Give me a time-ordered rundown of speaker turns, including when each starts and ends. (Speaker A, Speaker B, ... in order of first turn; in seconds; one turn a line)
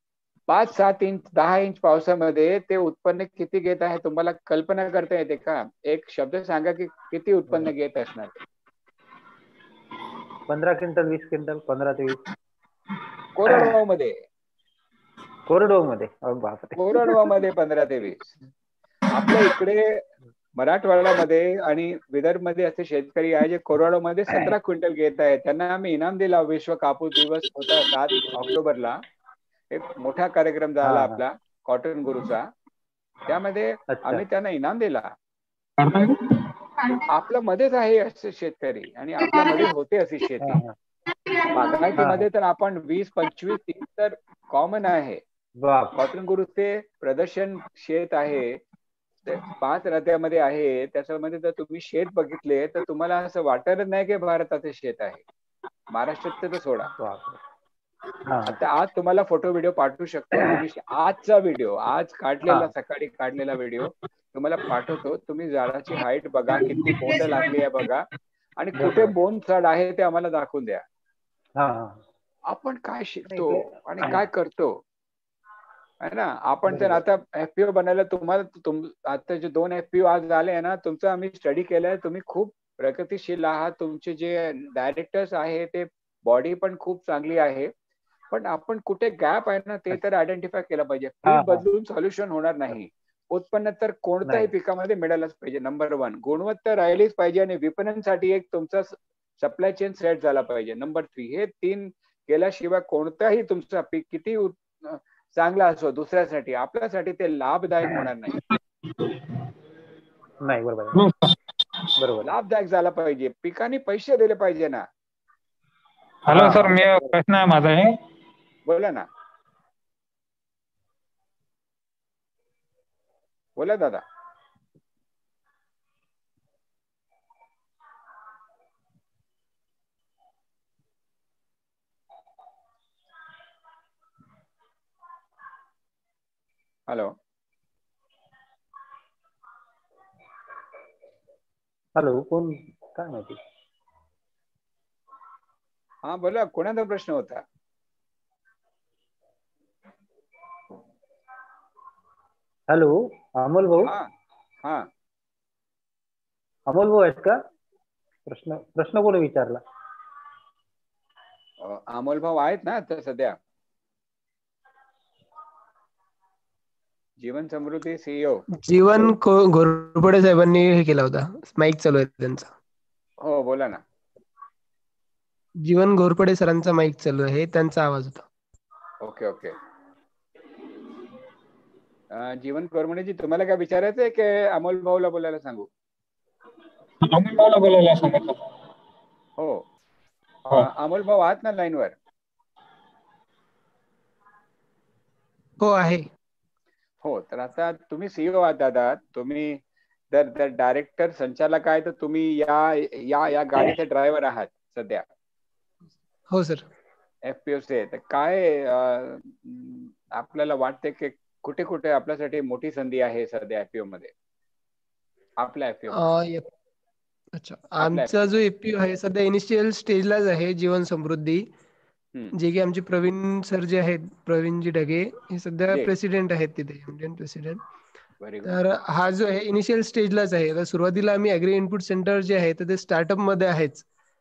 Speaker A: 0.5-8.3
Speaker B: 10.5-12.2
Speaker A: 13.3-14.2
Speaker B: 13.5-13.7
Speaker B: 15.5-17.2
Speaker A: 16.8-18.3
Speaker A: 19.1-20.0
Speaker A: 20.6-29.0
Speaker A: 29.7-32.5
Speaker B: 30.8-31.2
Speaker A: 33.2-35.1
Speaker B: 33.9-34.2
Speaker C: 35.8-37.0
Speaker A: 37.1-40.6
Speaker B: 40.4-40.7
Speaker A: 41.5-45.2
Speaker B: 42.0-42.3
Speaker B: 45.6-46.0
Speaker A: 45.9-48.6
Speaker A: 49.3-55.2
Speaker A: 55.9-56.9
Speaker B: 56.9-57.4
Speaker B: 58.2-58.6
Speaker A: 58.5-68.0
Speaker B: 66.6-67.2
Speaker A: 68.6-70.8
Speaker B: 68.8-69.1
Speaker B: 71.6-72.0
Speaker A: 72.5-74.8
Speaker B: 73.3-74.2
Speaker A: 76.0-87.7
Speaker B: 76.7-77.0
Speaker A: 88.3-108.4
Speaker B: 91.2-91.6
Speaker B: 94.2-94.5
Speaker B: 110.4-111.0
Speaker C: 110.9-111.9
Speaker B: 112.0-112.3
Speaker A: 112.2-114.8
Speaker C: 116.3-117.9
Speaker A: 116.3-116.8
Speaker A: 118.7-119.1
Speaker A: 123.6-124.0
Speaker A: 136.9-137.1
Speaker B: 141.9-143.4
Speaker A: 146.0-147.4
Speaker B: 152.7-153.9
Speaker A: 153.8-154.1
Speaker B: 156.7-157.3
Speaker B: 158.2-159.6
Speaker A: 161.6-163.4
Speaker A: 167.2-168.4
Speaker D: 168.6-172.5
Speaker A: 173.2-173.8
Speaker D: 175.6-178.2
Speaker A: 179.0-179.5
Speaker A: 182.1-185.7
Speaker C: 187.0-188.4
Speaker A: 189.4-189.6
Speaker A: 190.5-191.9
Speaker D: 195.6-196.1
Speaker A: 197.0-205.1
Speaker D: 206.3-206.6
Speaker A: 207.2-214.1
Speaker A: 215.4-216.0
Speaker D: 215.9-216.5
Speaker D: 217.3-221.4
Speaker A: 217.8-218.1
Speaker D: 222.3-227.6
Speaker A: 228.2-228.6
Speaker D: 228.4-233.8